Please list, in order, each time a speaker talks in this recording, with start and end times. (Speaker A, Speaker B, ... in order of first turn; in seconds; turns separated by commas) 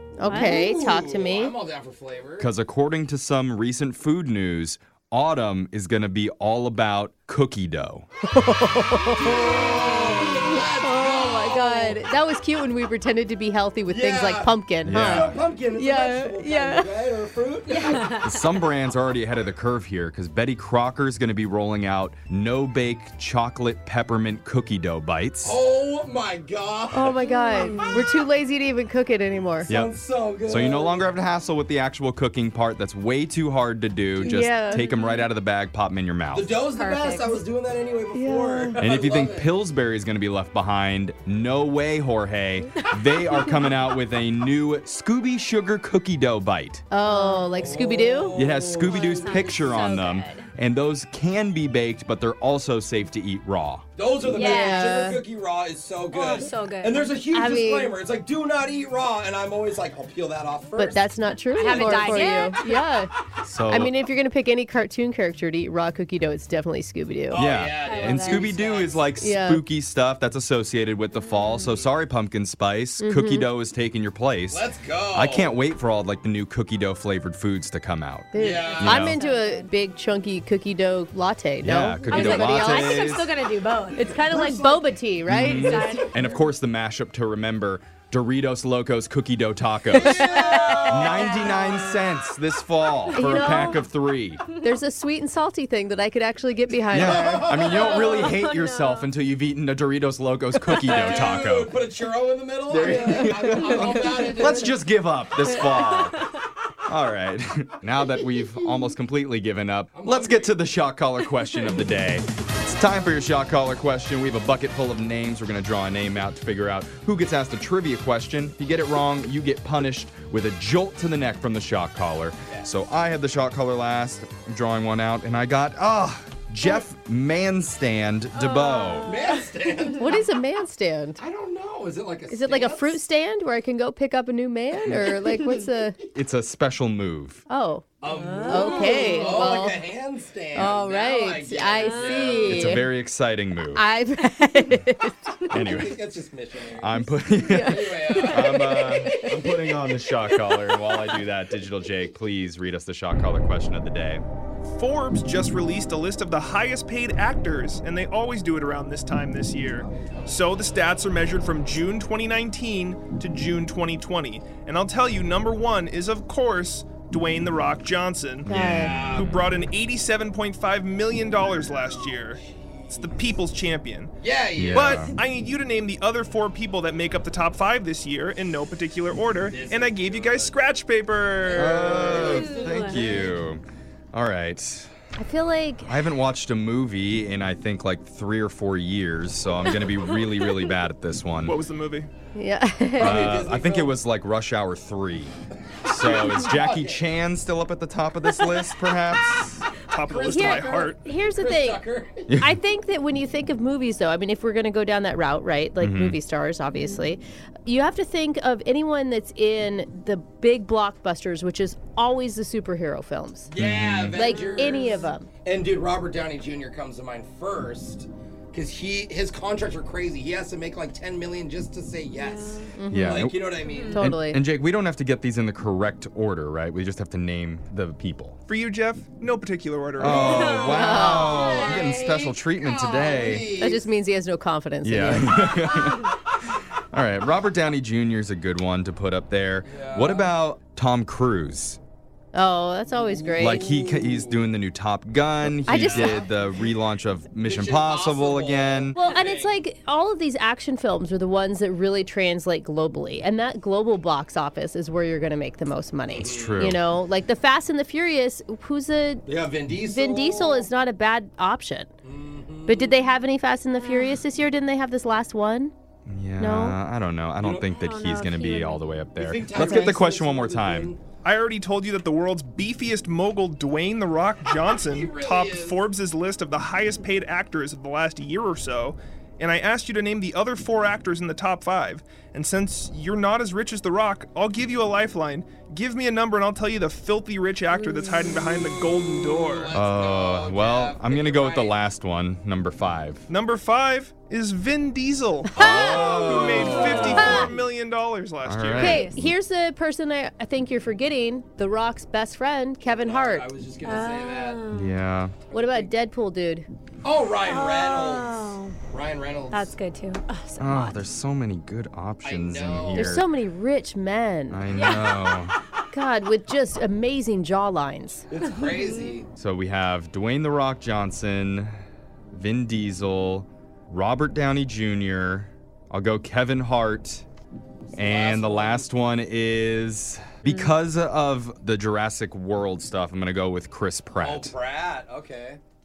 Speaker A: 0.2-1.6, Speaker B: 0.2-0.6, Speaker C: 0.3-2.5, Speaker D: 2.4-8.1, Speaker A: 8.3-17.0, Speaker C: 9.1-12.0, Speaker C: 13.9-18.1, Speaker D: 14.8-15.4, Speaker B: 17.7-18.5, Speaker D: 18.2-25.6, Speaker C: 25.4-28.0, Speaker A: 26.9-29.7, Speaker B: 27.3-28.0, Speaker D: 29.7-29.9, Speaker C: 29.7-31.0, Speaker D: 30.5-36.5, Speaker A: 34.2-34.9, Speaker B: 34.6-35.3, Speaker C: 36.3-39.5, Speaker B: 36.8-37.4, Speaker A: 38.1-38.8, Speaker D: 38.8-46.9, Speaker A: 46.9-48.6, Speaker B: 47.0-47.7, Speaker C: 47.6-49.7, Speaker D: 48.4-53.8, Speaker B: 48.7-50.5, Speaker C: 54.0-61.0, Speaker B: 54.3-55.1, Speaker A: 54.3-55.2, Speaker B: 56.1-57.1, Speaker A: 57.3-58.0, Speaker A: 60.8-63.1, Speaker B: 61.5-62.8, Speaker C: 61.6-62.7, Speaker D: 63.4-63.9, Speaker A: 63.7-67.4, Speaker C: 67.3-69.0, Speaker D: 67.3-79.2, Speaker B: 67.8-68.5, Speaker A: 69.2-69.6, Speaker B: 71.2-71.8, Speaker A: 73.0-73.5, Speaker C: 74.5-75.5, Speaker A: 78.3-83.1, Speaker C: 78.4-79.2, Speaker B: 78.6-79.7, Speaker D: 81.6-83.3, Speaker B: 82.1-84.1, Speaker C: 84.0-84.9, Speaker A: 84.0-86.0, Speaker D: 85.3-94.4, Speaker B: 85.5-86.5, Speaker C: 89.9-91.6, Speaker A: 89.9-91.1, Speaker B: 91.2-92.0, Speaker A: 93.2-93.8, Speaker B: 93.2-93.8, Speaker B: 94.5-94.7, Speaker A: 94.6-97.7, Speaker C: 96.9-98.4, Speaker D: 96.9-101.8, Speaker B: 97.6-99.1, Speaker C: 100.8-104.8, Speaker B: 100.9-101.3, Speaker D: 102.7-106.2, Speaker A: 102.8-104.4, Speaker B: 105.6-105.9, Speaker D: 106.8-129.2, Speaker C: 109.9-110.6, Speaker B: 128.3-130.1, Speaker C: 129.1-130.2, Speaker A: 130.0-131.2, Speaker C: 131.2-133.0, Speaker A: 132.3-136.0, Speaker D: 134.9-135.2, Speaker D: 136.1-137.4, Speaker A: 137.5-137.9, Speaker C: 138.0-142.6, Speaker B: 138.0-139.5, Speaker A: 138.4-139.8, Speaker A: 140.5-142.9, Speaker B: 141.7-142.4, Speaker D: 142.4-143.8, Speaker A: 143.8-145.8, Speaker D: 145.5-146.0, Speaker C: 145.6-148.9, Speaker D: 146.8-154.2, Speaker A: 147.3-149.7, Speaker E: 154.7-174.1, Speaker C: 159.8-160.8, Speaker D: 168.5-169.0, Speaker A: 168.5-169.1, Speaker C: 168.6-169.4, Speaker C: 172.5-173.1, Speaker C: 174.2-175.2, Speaker D: 174.6-175.2, Speaker E: 174.7-182.1, Speaker C: 179.4-180.6, Speaker C: 181.4-183.4, Speaker D: 181.6-183.6, Speaker B: 182.2-183.1, Speaker D: 184.1-184.9, Speaker A: 185.2-186.0, Speaker D: 185.8-191.6, Speaker B: 189.9-190.6, Speaker E: 191.4-192.1, Speaker A: 192.3-193.3, Speaker C: 193.0-194.0, Speaker D: 193.0-195.3, Speaker C: 195.8-197.1, Speaker D: 195.8-199.7, Speaker E: 199.9-201.0, Speaker C: 200.0-202.3, Speaker A: 200.3-201.8, Speaker D: 202.3-202.6, Speaker A: 202.4-213.5, Speaker D: 205.8-206.2, Speaker C: 213.5-224.1, Speaker D: 213.6-214.2, Speaker A: 214.1-215.3, Speaker B: 214.3-215.1, Speaker B: 222.1-222.7, Speaker A: 222.8-223.3, Speaker D: 222.9-223.4, Speaker B: 223.6-224.0, Speaker A: 223.9-224.4, Speaker D: 223.9-228.4, Speaker E: 228.5-230.8, Speaker D: 230.0-233.5, Speaker C: 230.0-233.8, Speaker B: 230.2-231.7, Speaker A: 230.6-231.5, Speaker A: 233.4-235.7, Speaker D: 234.8-236.2, Speaker C: 235.6-236.0, Speaker D: 236.9-241.8, Speaker C: 239.6-240.3, Speaker A: 242.3-243.9, Speaker C: 243.0-244.5, Speaker D: 243.4-249.0, Speaker A: 245.7-246.3, Speaker C: 245.7-246.2, Speaker C: 247.4-249.6, Speaker A: 249.0-259.3, Speaker C: 256.1-256.7, Speaker D: 256.2-256.8, Speaker C: 259.3-260.7, Speaker A: 259.8-261.9, Speaker C: 262.0-262.9, Speaker A: 262.7-265.7, Speaker B: 263.8-264.1, Speaker D: 266.1-270.9, Speaker A: 266.4-266.8, Speaker C: 267.4-267.7, Speaker B: 267.6-269.0, Speaker C: 269.1-271.0, Speaker E: 271.2-289.8, Speaker C: 274.6-275.8, Speaker B: 287.8-288.2, Speaker C: 289.2-291.8, Speaker D: 289.7-293.3, Speaker E: 293.3-299.0, Speaker A: 295.5-297.5, Speaker D: 295.6-297.5, Speaker C: 295.6-297.6, Speaker B: 297.0-297.4, Speaker D: 298.4-299.4, Speaker B: 298.8-299.2, Speaker A: 298.8-303.5, Speaker C: 302.8-304.6, Speaker B: 303.8-305.0, Speaker D: 304.7-305.4, Speaker C: 305.5-305.9, Speaker A: 305.5-306.7, Speaker C: 307.0-309.7, Speaker B: 307.4-308.8, Speaker B: 309.5-311.0, Speaker D: 310.6-313.3, Speaker C: 312.2-313.2, Speaker A: 312.9-314.6, Speaker D: 314.5-315.6, Speaker B: 314.7-315.4, Speaker A: 315.9-318.3, Speaker C: 318.3-319.3, Speaker B: 318.6-319.1, Speaker D: 319.4-321.7, Speaker D: 322.3-327.2, Speaker C: 327.9-328.9, Speaker D: 327.9-334.5, Speaker B: 330.4-330.7, Speaker C: 334.2-335.6